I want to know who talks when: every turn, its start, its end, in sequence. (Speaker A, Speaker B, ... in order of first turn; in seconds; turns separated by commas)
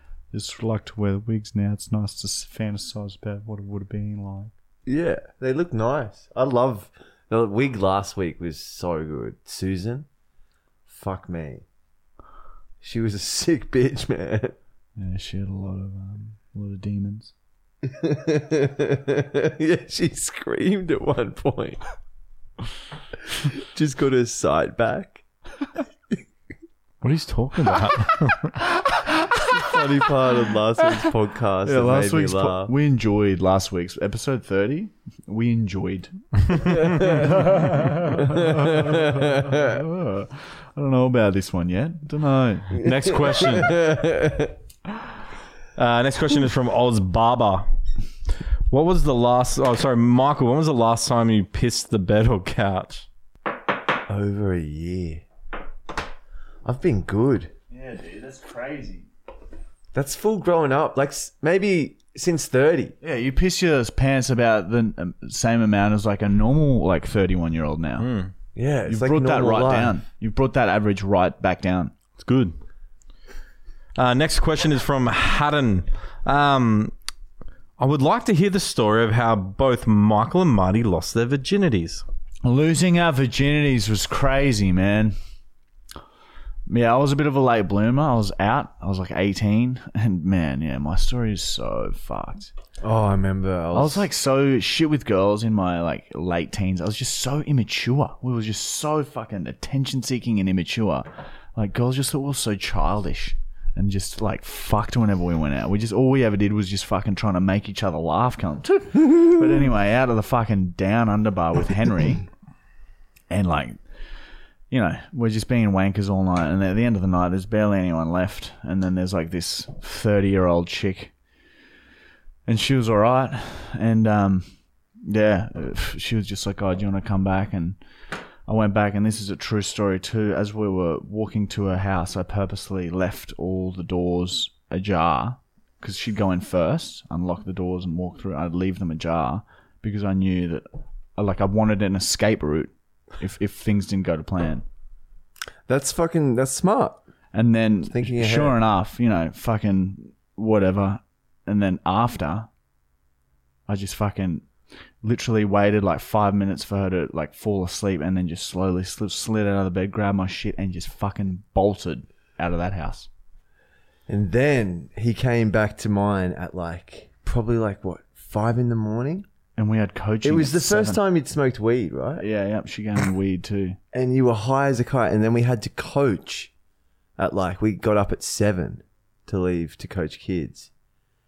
Speaker A: 0.3-4.5, Speaker B: 4.9-10.1, Speaker B: 10.9-11.7, Speaker B: 12.8-14.6, Speaker A: 15.0-17.3, Speaker B: 17.8-21.8, Speaker B: 23.4-25.2, Speaker C: 27.0-28.6, Speaker B: 29.5-32.7, Speaker A: 31.6-42.8, Speaker B: 36.6-37.5, Speaker B: 38.1-39.8, Speaker B: 42.7-44.6, Speaker C: 42.8-43.9, Speaker C: 45.8-47.7, Speaker C: 48.7-53.1, Speaker B: 54.1-55.2, Speaker B: 56.6-57.5, Speaker A: 57.7-59.1, Speaker B: 59.9-63.0, Speaker A: 63.0-68.1, Speaker C: 68.0-68.3, Speaker B: 68.5-70.0, Speaker A: 68.9-71.9, Speaker C: 72.2-72.5, Speaker C: 74.0-76.9, Speaker C: 77.8-82.0, Speaker A: 82.4-85.2, Speaker A: 86.7-92.5, Speaker B: 92.8-94.1, Speaker A: 93.7-112.3, Speaker A: 113.3-113.8, Speaker A: 114.7-121.1, Speaker A: 122.5-124.5, Speaker A: 125.0-127.8, Speaker A: 128.5-140.7, Speaker A: 141.2-144.7, Speaker B: 145.7-147.0, Speaker A: 147.3-152.5, Speaker B: 147.9-148.6, Speaker A: 153.7-154.4, Speaker A: 155.0-163.1, Speaker B: 164.1-169.3, Speaker A: 169.6-171.0, Speaker B: 170.2-172.2, Speaker A: 172.2-173.8, Speaker B: 173.9-176.5, Speaker B: 177.2-180.7